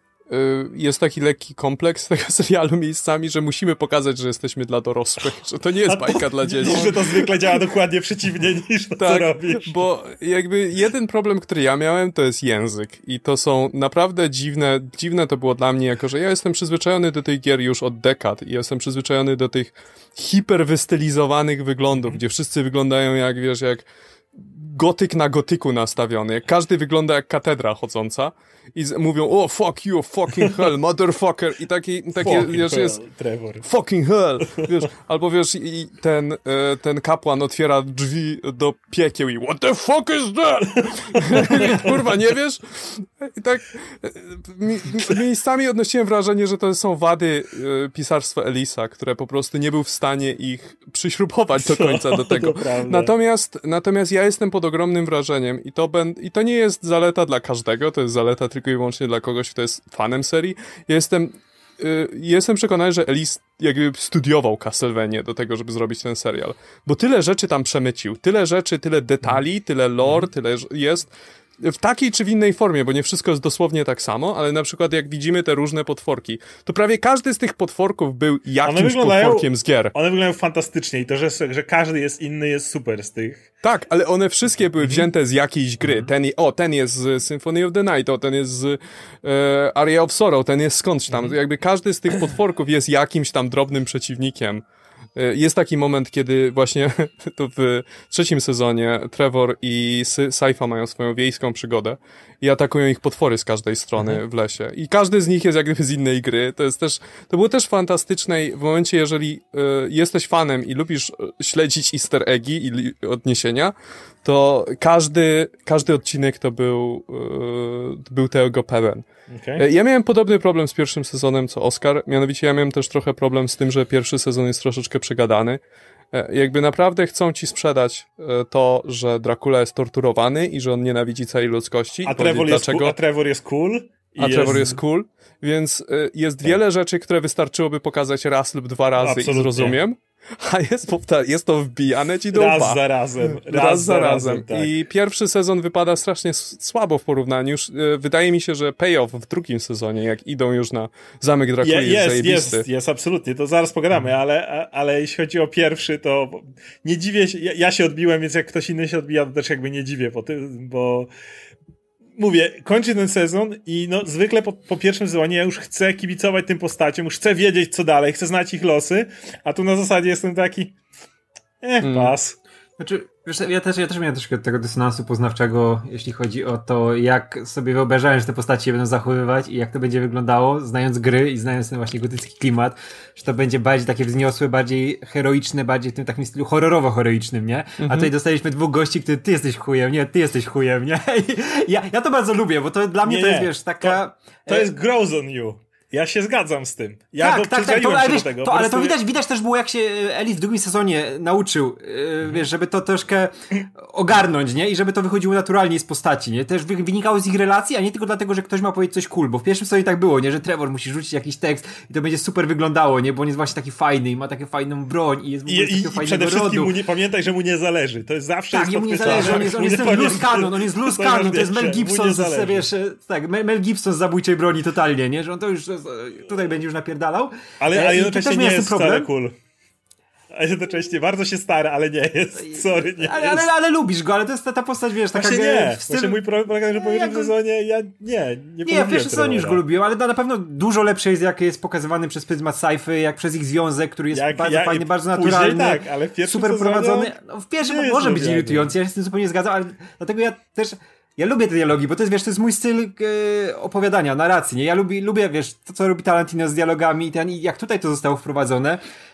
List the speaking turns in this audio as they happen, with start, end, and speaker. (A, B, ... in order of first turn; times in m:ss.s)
0:00.3-0:07.6 A
0:05.9-0:09.8 B
0:09.0-0:33.0 A
0:32.2-0:33.6 B
0:33.6-1:11.1 A
0:41.1-0:42.0 B
0:51.6-0:53.1 B
1:11.6-1:20.0 A
1:18.6-1:23.5 B
1:23.6-1:34.6 A
1:25.8-1:26.1 C
1:35.2-1:53.7 A
1:54.2-1:59.0 A
1:59.3-1:59.6 B
1:59.6-2:05.6 A
2:06.1-2:13.0 A
2:12.1-2:14.8 B
2:14.2-2:32.6 A
2:19.0-2:19.8 B
2:22.3-2:24.7 B
2:31.6-2:41.1 B
2:42.2-2:50.8 B
2:51.6-2:52.4 B
2:51.8-2:52.2 A
2:52.8-3:14.7 C
3:07.8-3:08.1 A
3:13.0-3:19.0 B
3:17.2-3:36.7 C
3:35.5-3:42.7 B
3:38.5-3:49.1 C
3:47.6-3:49.4 B
3:50.3-3:53.5 B
3:52.4-3:57.3 C
3:55.1-3:59.6 B
3:58.6-4:18.8 C
4:04.1-4:08.7 B